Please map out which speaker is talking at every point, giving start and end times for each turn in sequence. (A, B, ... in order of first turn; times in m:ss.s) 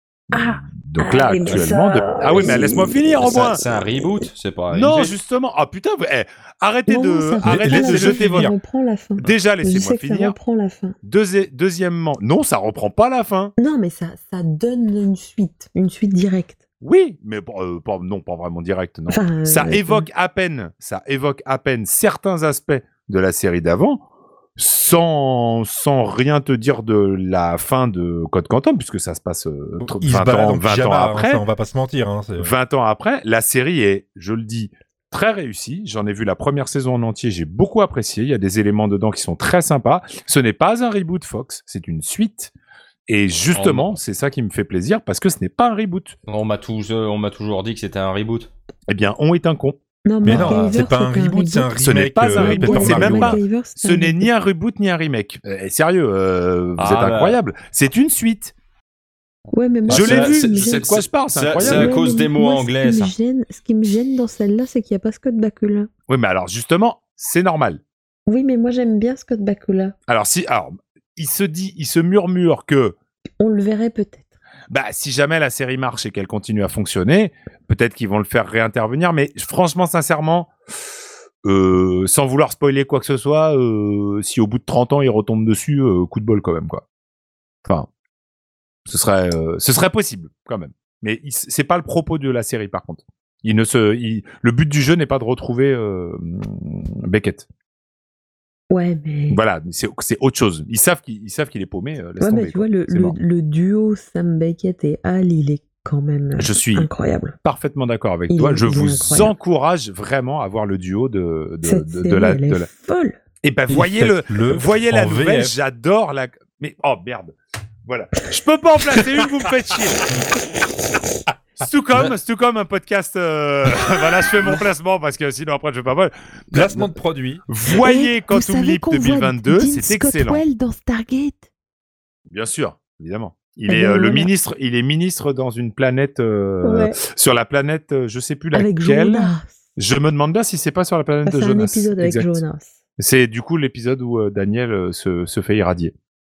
0:00.3-0:03.6 A
0:00.3-0:04.3 B
0:03.2-0:05.1 C
0:04.7-0:08.5 A
0:06.9-0:11.0 B
0:07.4-0:08.6 D
0:09.2-0:10.4 A
0:11.0-0:13.5 A
0:13.6-0:16.6 B
0:16.8-0:24.0 A
0:19.1-0:20.1 B
0:24.6-0:31.4 A
0:29.8-0:32.5 D
0:32.4-0:42.5 A
0:43.1-0:46.2 A
0:43.5-0:43.9 C
0:46.3-0:48.5 C
0:48.9-0:50.6 A
0:50.0-0:51.7 B
0:50.2-0:53.4 D
0:51.8-0:58.5 A
0:52.3-0:54.3 B
0:56.8-0:57.4 C
0:59.5-1:01.0 B
0:59.9-1:03.1 C
0:59.9-1:01.9 A
1:01.6-1:05.9 B
1:06.1-1:07.8 A
1:08.3-1:10.0 B
1:10.1-1:13.0 A
1:13.4-1:14.2 B
1:14.7-1:20.5 A
1:21.4-1:26.8 A
1:28.9-1:37.4 A
1:38.7-1:39.4 B
1:39.3-1:43.1 A
1:42.2-1:47.4 B
1:46.4-1:46.9 A
1:47.4-1:52.7 A
1:48.3-1:49.3 B
1:51.6-1:53.2 B
1:53.4-1:57.3 A
1:53.7-1:55.6 D
1:57.8-2:00.0 A
2:01.6-2:06.8 A
2:06.5-2:07.4 D
2:07.5-2:10.4 A
2:07.7-2:11.5 B
2:12.3-2:22.4 A
2:13.7-2:14.3 B
2:16.6-2:17.0 B
2:18.5-2:19.5 B
2:21.2-2:22.7 B
2:23.0-2:25.9 A